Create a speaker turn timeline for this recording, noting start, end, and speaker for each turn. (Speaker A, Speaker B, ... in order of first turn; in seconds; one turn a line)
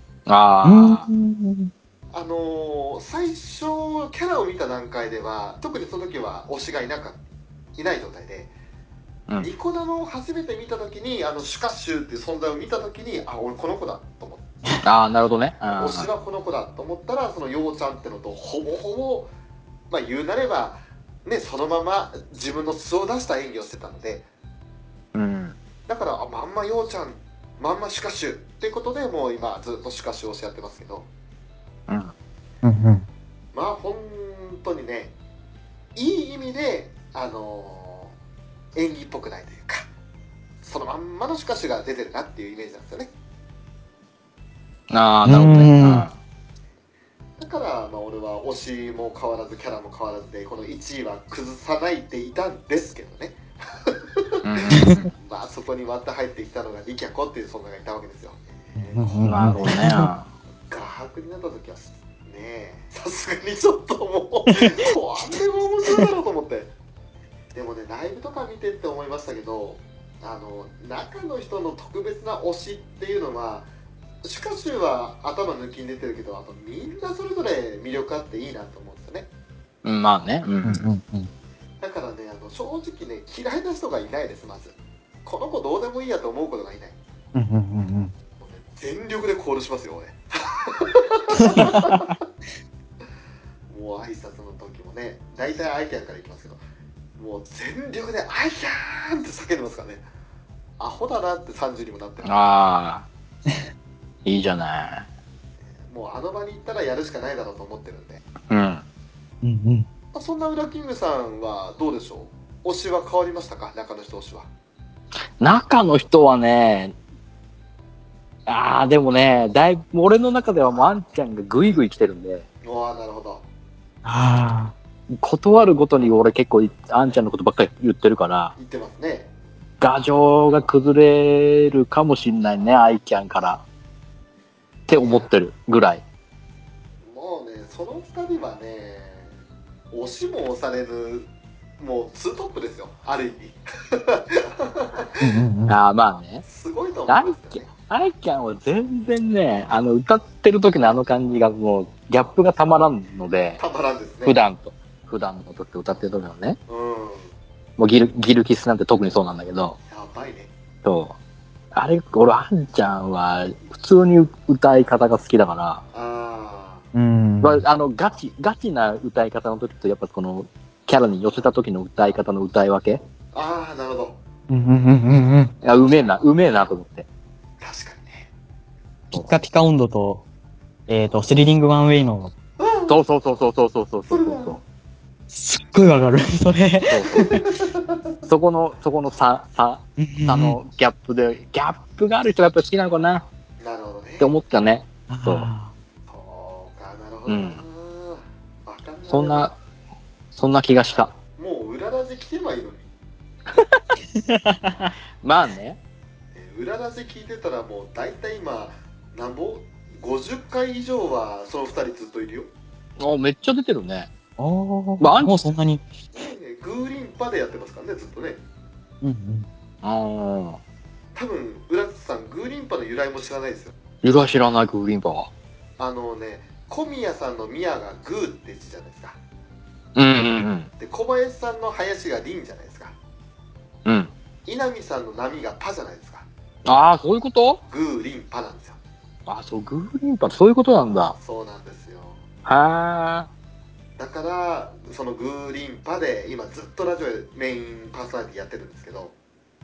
Speaker A: 0.3-1.1
Speaker B: 0.6-1.7
Speaker C: 2.1-7.2
Speaker C: 7.8-8.5
Speaker C: 9.4-14.4
Speaker A: 14.8-16.1
Speaker C: 15.7-19.3
Speaker C: 19.9-24.2
Speaker A: 25.1-25.6
Speaker C: 25.9-31.1
Speaker A: 31.9-32.1
Speaker B: 32.6-33.0
Speaker C: 33.5-35.1
Speaker C: 35.9-38.1
Speaker C: 38.7-39.9
Speaker C: 40.6-43.1
Speaker A: 44.9-46.1
Speaker B: 45.2-46.0
Speaker C: 47.4-59.1
Speaker A: 54.4-55.1
Speaker B: 58.8-60.1
Speaker A: 59.2-60.3
Speaker C: 60.7-66.7
Speaker C: 67.5-73.7
Speaker C: 74.2-79.3
Speaker A: 79.8-80.8
Speaker B: 80.6-81.3
Speaker C: 81.8-86.9
Speaker B: 87.3-88.1
Speaker C: 88.4-92.2
Speaker B: 91.5-91.9
Speaker C: 93.7-96.6
Speaker C: 97.2-100.0
Speaker C: 100.8-102.4
Speaker A: 102.2-103.0
Speaker A: 104.2-105.0
Speaker C: 105.8-108.2
Speaker A: 108.5-108.8
Speaker B: 109.4-109.9
Speaker C: 110.1-114.5
Speaker A: 115.4-116.9
Speaker A: 118.5-122.4
Speaker C: 122.6-123.4
Speaker B: 124.0-124.7
Speaker A: 125.1-128.5
Speaker C: 128.6-129.3
Speaker A: 129.8-133.6
Speaker A: 134.9-136.0
Speaker C: 134.9-135.3
Speaker C: 137.0-139.3
Speaker C: 139.9-145.3
Speaker B: 145.2-145.8
Speaker A: 145.7-146.4
Speaker C: 146.4-147.7
Speaker A: 147.1-153.6
Speaker C: 153.6-154.4
Speaker A: 154.2-156.6
Speaker C: 156.7-157.3
Speaker A: 157.8-159.8
Speaker C: 159.9-160.5
Speaker A: 160.8-161.2
Speaker A: 161.7-165.8
Speaker C: 165.9-166.8
Speaker B: 166.9-167.6
Speaker A: 167.4-173.0
Speaker C: 173.3-174.2
Speaker B: 174.5-175.5
Speaker A: 175.6-177.1
Speaker C: 177.6-178.2
Speaker B: 179.1-180.2
Speaker B: 180.9-182.3
Speaker C: 182.6-182.9
Speaker A: 182.9-184.6
Speaker C: 184.1-184.6
Speaker B: 185.3-187.3
Speaker A: 186.9-187.3
Speaker C: 187.1-188.0
Speaker A: 188.3-193.2
Speaker B: 190.0-190.6
Speaker C: 193.6-194.3
Speaker A: 194.2-195.5
Speaker B: 195.1-195.7
Speaker C: 196.1-199.5
Speaker A: 197.3-197.6
Speaker A: 199.1-199.5
Speaker A: 200.3-201.1
Speaker C: 201.3-202.9
Speaker A: 203.5-203.8
Speaker B: 204.1-204.9
Speaker A: 205.2-205.8
Speaker C: 206.3-212.5
Speaker A: 213.0-214.1
Speaker B: 214.4-215.9
Speaker A: 215.0-215.4
Speaker C: 216.1-218.4
Speaker B: 219.0-219.5
Speaker A: 219.8-220.6
Speaker C: 221.1-223.7
Speaker A: 224.0-225.3
Speaker C: 225.8-229.2
Speaker A: 229.9-230.7
Speaker C: 230.8-232.9
Speaker A: 233.8-234.1
Speaker C: 234.4-236.2
Speaker A: 236.6-237.6
Speaker C: 237.7-238.8
Speaker A: 239.3-241.1
Speaker C: 241.1-242.2
Speaker A: 242.4-243.3
Speaker C: 244.0-249.1